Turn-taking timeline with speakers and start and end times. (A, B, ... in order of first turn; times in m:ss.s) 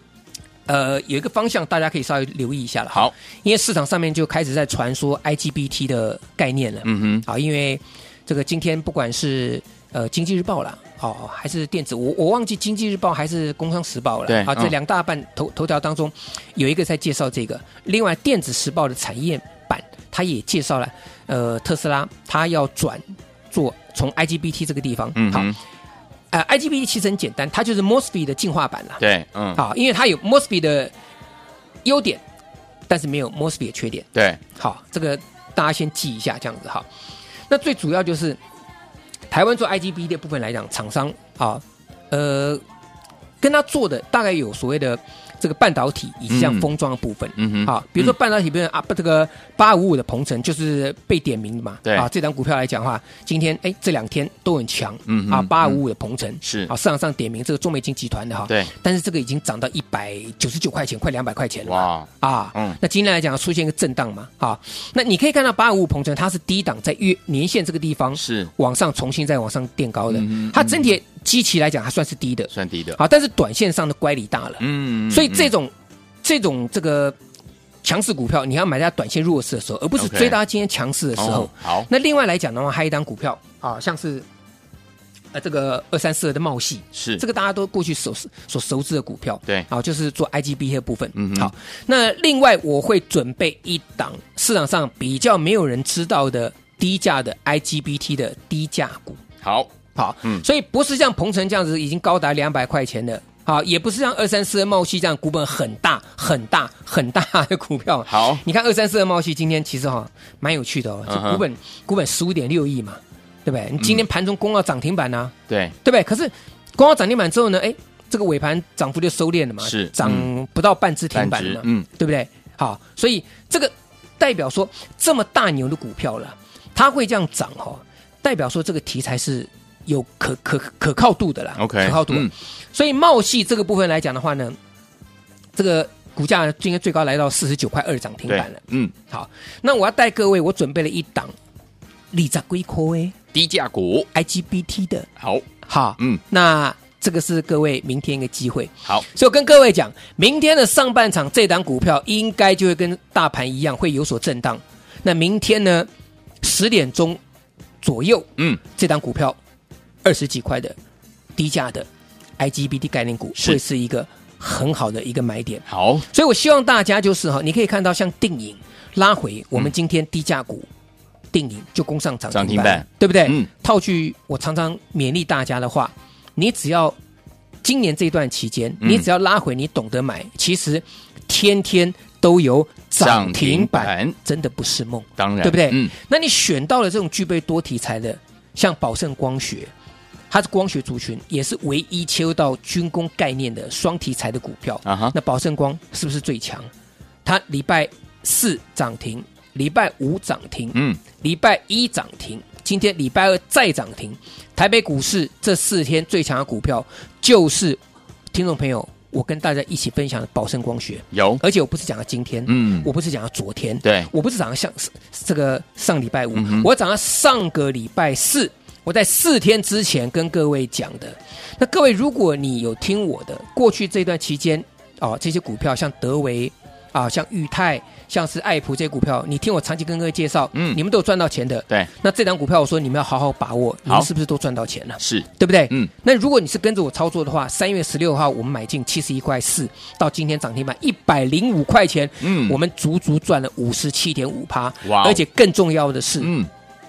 0:00.7-0:25.5 A
0:06.8-0:07.2 B
0:14.3-0:14.7 B
0:25.2-0:25.6 B
0:26.3-0:29.0 A
0:29.0-0:29.6 B
0:29.6-0:30.9 A
0:31.8-0:32.2 A
0:32.9-0:36.9 A
0:34.1-0:34.4 B
0:37.5-0:38.4 A
0:39.3-0:42.6 A
0:43.4-1:15.7 A
0:46.3-0:46.7 B
0:47.4-0:48.1 B
0:55.1-0:55.8 B
0:56.4-0:56.7 B
1:01.6-1:02.8 B
1:08.2-1:08.5 B
1:10.1-1:10.9 B
1:12.5-1:13.0 B
1:14.6-1:15.5 B
1:16.2-1:17.2 A
1:17.8-1:24.2 A
1:20.0-1:20.4 B
1:21.2-1:21.9 B
1:25.3-1:39.2 A
1:26.9-1:27.2 B
1:31.2-1:31.5 B
1:39.4-1:39.7 B
1:39.9-2:14.6 A
1:48.1-1:48.4 B
1:51.1-1:51.4 B
1:55.5-1:55.7 B
1:59.6-2:00.3 B
2:01.1-2:01.8 B
2:11.6-2:12.3 B
2:15.6-2:21.3 A
2:18.3-2:18.9 B
2:22.1-2:23.1 A
2:23.3-2:24.1 B
2:24.1-2:25.1 A
2:25.2-2:25.4 B
2:25.6-2:35.9 A
2:36.4-2:37.2 A
2:37.8-2:39.4 A
2:40.0-2:40.8 A
2:41.4-2:41.9 A
2:42.4-2:50.7 A
2:45.7-2:46.0 B
2:51.3-2:57.0 A
2:52.3-2:53.5 B
2:57.6-3:09.7 A
2:58.8-2:59.1 B
3:03.0-3:04.2 B
3:05.2-3:05.9 B
3:10.3-3:16.7 A
3:14.8-3:15.1 B
3:17.2-3:27.8 A
3:20.7-3:21.0 B
3:28.3-4:06.3 A
3:31.1-3:31.4 B
3:32.5-3:32.9 B
3:33.8-3:34.1 B
3:36.3-3:36.7 B
3:50.5-3:50.8 B
3:55.0-3:55.9 B
4:02.2-4:02.6 B
4:04.8-4:05.2 B
4:06.2-4:06.5 B